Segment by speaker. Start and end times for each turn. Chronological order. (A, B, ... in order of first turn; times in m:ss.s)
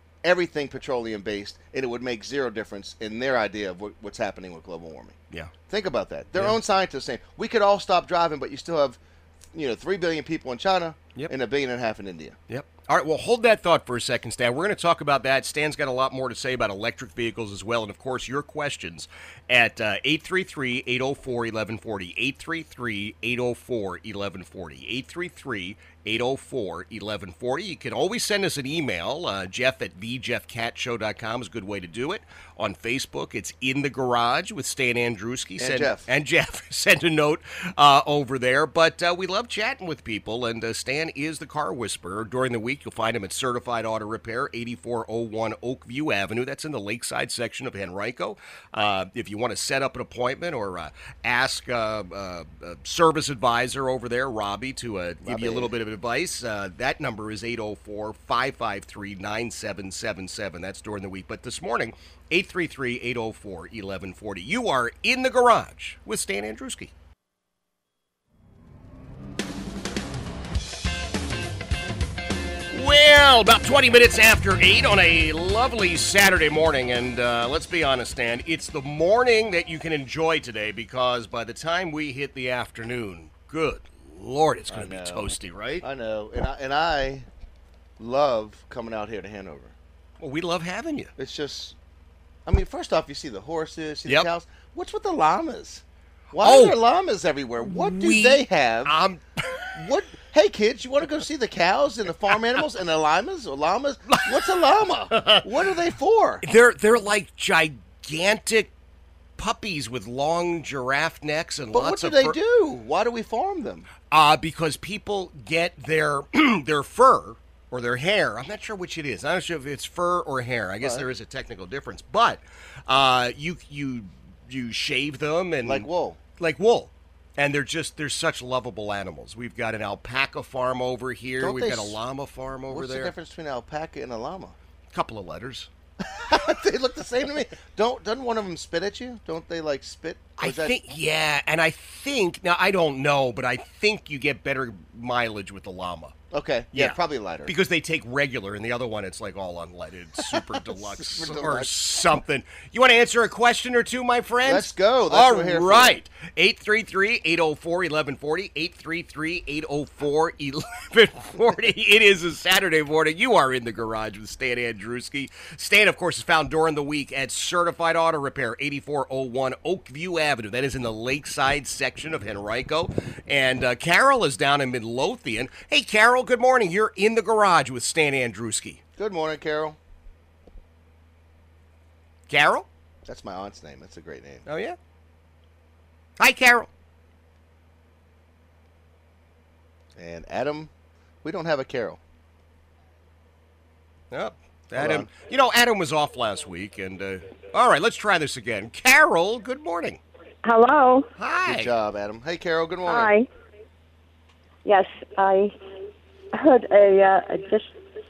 0:00.2-0:05.2 A
0:05.7-0:09.0 A
0:09.5-0:12.4 A
0:12.5-1:06.9 B
0:35.6-0:36.1 A
0:55.2-0:55.7 A
1:12.7-1:25.8 B
1:24.7-1:27.3 A
1:28.0-1:29.7 A
1:30.2-1:31.1 B
1:31.2-1:31.8 A
1:32.4-1:38.9 A
1:36.4-1:36.8 B
1:37.6-1:39.7 B
1:39.8-1:46.4 A
1:44.1-1:44.6 B
1:45.1-1:45.4 B
1:46.4-1:48.7 B
1:49.4-1:52.4 B
1:51.7-1:53.9 A
1:54.1-2:13.1 B
2:00.8-2:01.1 A
2:05.6-2:06.2 A
2:11.4-2:12.0 A
2:12.7-2:14.6 A
2:14.9-2:15.7 B
2:16.0-2:20.7 A
2:20.4-2:26.1 B
2:26.3-2:27.5 A
2:26.7-2:58.8 B
2:30.3-2:31.7 A
2:34.4-2:36.0 A
2:59.0-2:59.8 A
3:02.3-3:02.7 B
3:03.0-3:04.4 A
3:04.4-3:04.8 B
3:06.2-3:06.7 B
3:10.0-3:10.7 A
3:11.2-3:12.0 A
3:14.1-3:20.0 B
3:14.8-3:15.1 A
3:20.4-3:21.1 C
3:21.2-3:21.7 B
3:21.5-3:23.1 A
3:22.8-3:23.3 C
3:24.6-3:25.5 C
3:26.3-3:27.7 C